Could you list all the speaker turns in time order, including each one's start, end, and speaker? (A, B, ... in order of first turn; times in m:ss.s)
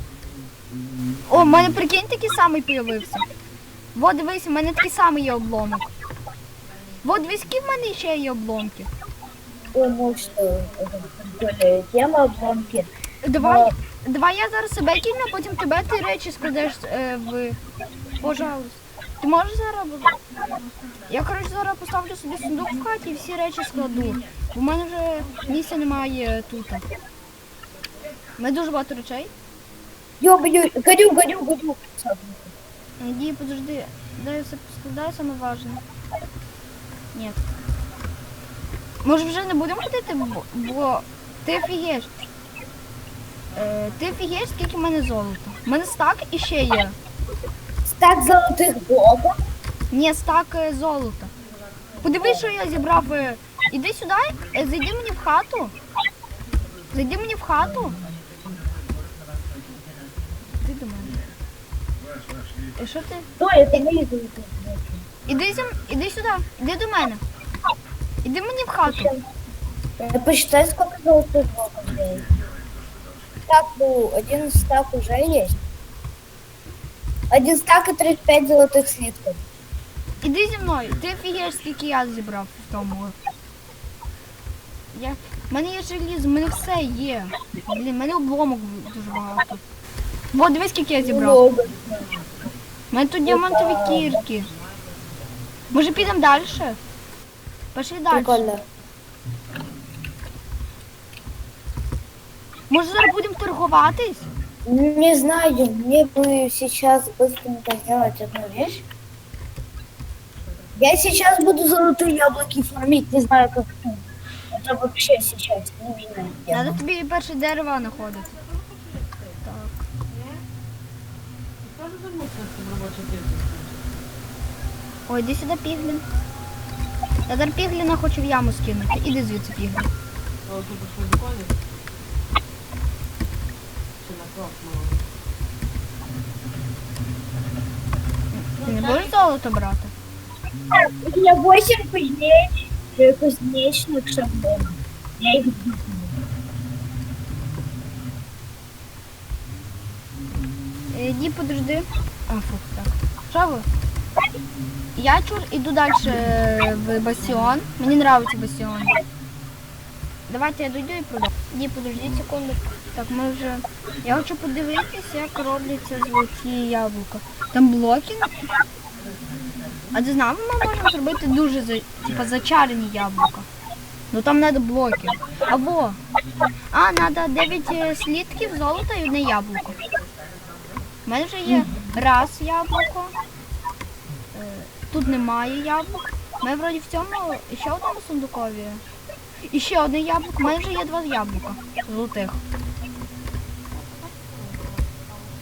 0:01.3-0:03.3 A
0:03.9-0:05.9 A
0:07.0-0:08.9 A
0:09.7-0:13.7 B
0:13.2-0:17.6 A
0:18.2-0:20.2 A
0:21.1-0:26.8 A
0:28.4-0:29.3 A
0:30.2-0:32.5 B
0:33.0-0:35.8 A
0:37.1-0:37.4 A
0:39.0-0:42.1 A
0:43.5-0:47.0 A
0:47.8-0:49.4 B
0:49.9-0:51.3 A
0:52.0-0:55.7 A
0:56.9-0:58.0 A
1:00.6-1:01.2 A
1:02.8-1:03.3 A
1:03.4-1:05.0 B
1:05.3-1:07.2 A
1:08.2-1:09.1 A
1:08.9-1:09.2 B
1:10.0-1:12.3 B
1:13.5-1:15.6 B
1:17.3-1:19.4 B
1:20.2-1:23.2 A
1:24.9-1:29.6 A
1:30.3-1:31.4 A
1:31.0-1:32.2 B
1:32.9-1:34.5 A
1:33.3-1:34.2 B
1:35.7-1:36.8 A
1:37.7-1:38.5 A
1:38.1-1:38.6 B
1:42.7-1:44.3 A
1:44.7-1:48.8 B
1:50.8-1:56.8 B
1:56.5-1:58.3 A
1:59.4-1:59.7 A
2:01.8-2:03.7 C
2:05.1-2:06.0 A
2:07.3-2:09.9 A
2:10.5-2:11.5 C
2:14.0-2:15.0 C
2:18.3-2:19.9 A
2:20.8-2:26.1 B
2:30.9-2:33.7 A
2:35.0-2:39.0 A
2:40.3-2:48.3 A
2:49.9-2:53.5 A
2:54.1-2:56.0 A
2:56.7-2:59.8 A
3:01.1-3:03.1 A
3:04.3-3:08.8 A
3:09.5-3:12.4 A